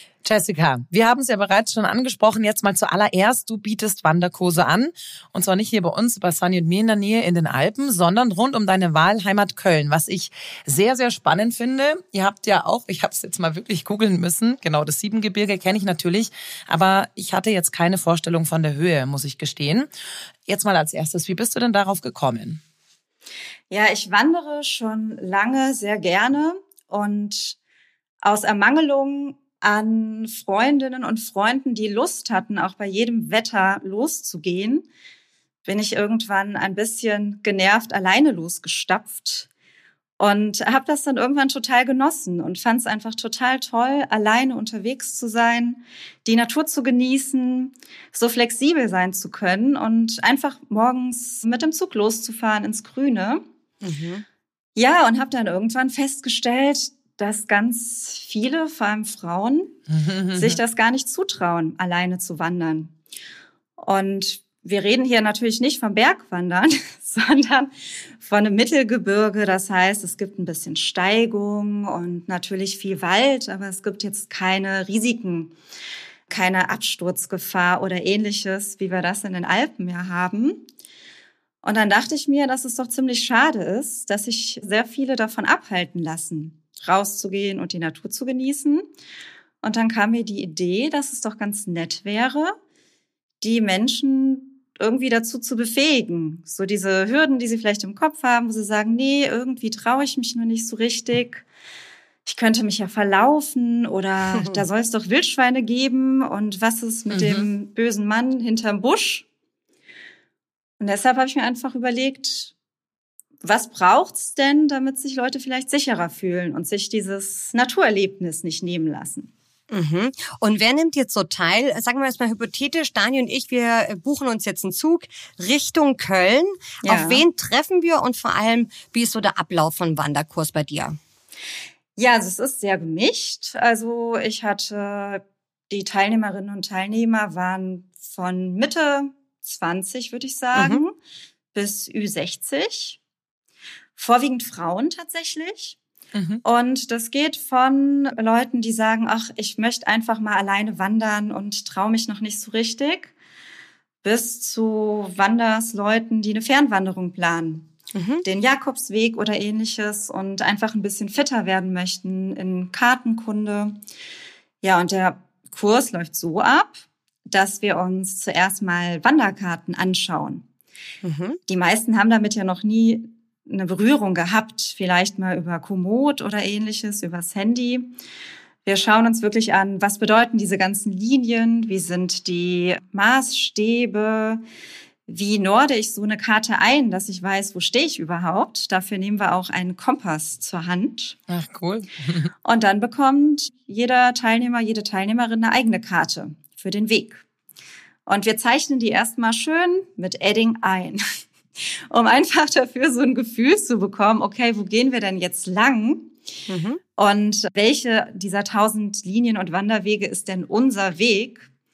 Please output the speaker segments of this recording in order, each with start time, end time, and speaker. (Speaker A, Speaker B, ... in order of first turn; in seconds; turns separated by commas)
Speaker A: 0.2-19.9, Speaker A: 20.5-22.6, Speaker B: 23.7-27.6, Speaker B: 28.2-34.8, Speaker B: 35.7-39.5, Speaker B: 40.2-53.4, Speaker C: 53.8-54.2, Speaker B: 54.8-59.8, Speaker A: 59.9-60.6, Speaker B: 60.3-62.9, Speaker B: 63.8-75.5, Speaker B: 76.3-80.7, Speaker B: 81.6-88.9, Speaker B: 89.6-92.6, Speaker B: 93.4-101.4, Speaker B: 102.3-109.3, Speaker A: 107.1-107.5, Speaker B: 110.8-112.5, Speaker B: 113.4-119.3, Speaker C: 119.7-131.0, Speaker B: 126.8-127.2, Speaker B: 132.0-140.9, Speaker C: 140.5-140.8, Speaker B: 141.5-143.0, Speaker B: 144.0-145.8, Speaker A: 146.1-146.4, Speaker B: 146.4-153.1, Speaker B: 154.0-157.7, Speaker C: 157.9-158.2, Speaker B: 158.2-163.8, Speaker B: 164.6-170.4, Speaker C: 171.0-171.4, Speaker B: 171.5-177.9, Speaker B: 178.7-184.4, Speaker B: 185.1-191.2, Speaker A: 191.3-192.3, Speaker B: 192.4-197.2, Speaker B: 198.1-201.0, Speaker B: 201.9-206.1, Speaker C: 206.5-206.8, Speaker B: 207.0-211.5